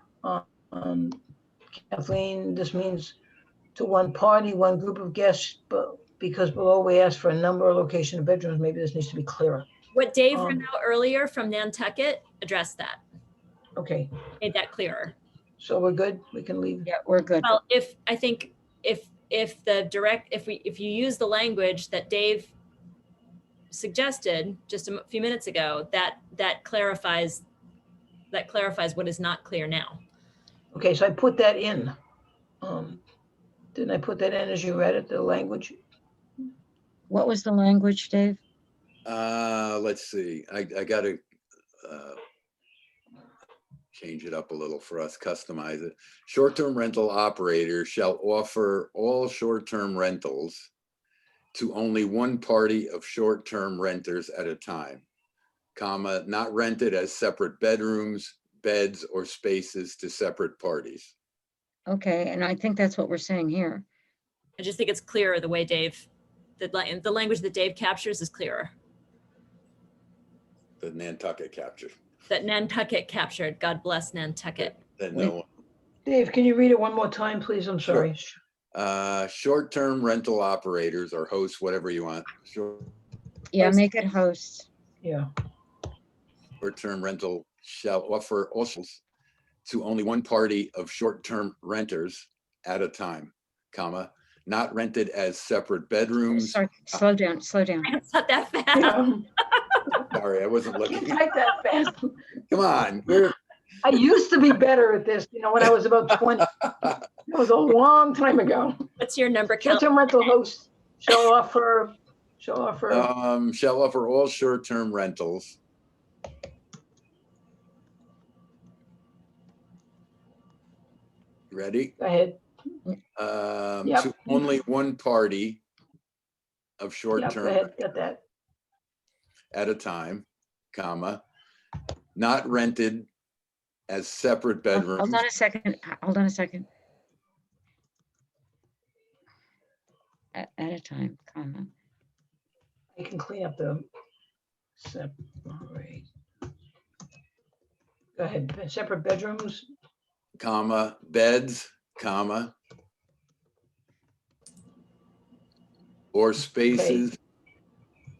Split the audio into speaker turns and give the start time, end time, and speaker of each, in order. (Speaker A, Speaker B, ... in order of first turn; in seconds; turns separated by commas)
Speaker A: 0.2-1.1, Speaker A: 1.9-3.2, Speaker A: 3.7-9.7, Speaker B: 9.9-13.0, Speaker A: 10.3-10.6, Speaker A: 13.8-14.1, Speaker B: 14.4-15.1, Speaker A: 15.6-16.9, Speaker C: 16.9-17.6, Speaker B: 17.4-22.5, Speaker B: 23.7-27.4, Speaker B: 28.3-30.0, Speaker A: 30.7-31.9, Speaker A: 32.6-33.0, Speaker A: 33.7-35.8, Speaker C: 37.1-38.4, Speaker D: 39.0-41.2, Speaker D: 41.8-42.2, Speaker D: 43.9-50.7, Speaker D: 51.5-55.0, Speaker D: 55.7-61.1, Speaker C: 61.9-63.9, Speaker B: 64.6-66.1, Speaker B: 66.6-68.7, Speaker D: 70.8-71.9, Speaker B: 72.3-74.8, Speaker D: 74.6-75.4, Speaker A: 76.0-78.3, Speaker D: 78.7-82.9, Speaker C: 83.5-84.7, Speaker A: 85.0-85.3, Speaker D: 86.6-89.0, Speaker D: 89.6-97.0, Speaker C: 96.3-97.9, Speaker B: 97.8-99.8, Speaker A: 98.7-99.3, Speaker D: 100.1-101.2, Speaker A: 100.8-102.1, Speaker D: 102.5-103.3, Speaker A: 103.8-108.9, Speaker B: 109.0-109.9, Speaker A: 109.6-113.1, Speaker D: 112.9-115.6, Speaker D: 121.5-122.0, Speaker A: 122.0-122.4, Speaker D: 123.2-125.6, Speaker A: 123.8-124.4, Speaker D: 126.8-127.8, Speaker A: 127.2-128.2, Speaker D: 129.5-131.2, Speaker D: 132.2-133.1, Speaker D: 133.9-135.2, Speaker C: 134.7-136.7, Speaker C: 140.3-141.7, Speaker A: 142.9-143.8, Speaker A: 144.8-146.1, Speaker A: 148.2-149.7, Speaker D: 150.4-152.5, Speaker D: 156.1-157.2, Speaker A: 156.7-157.1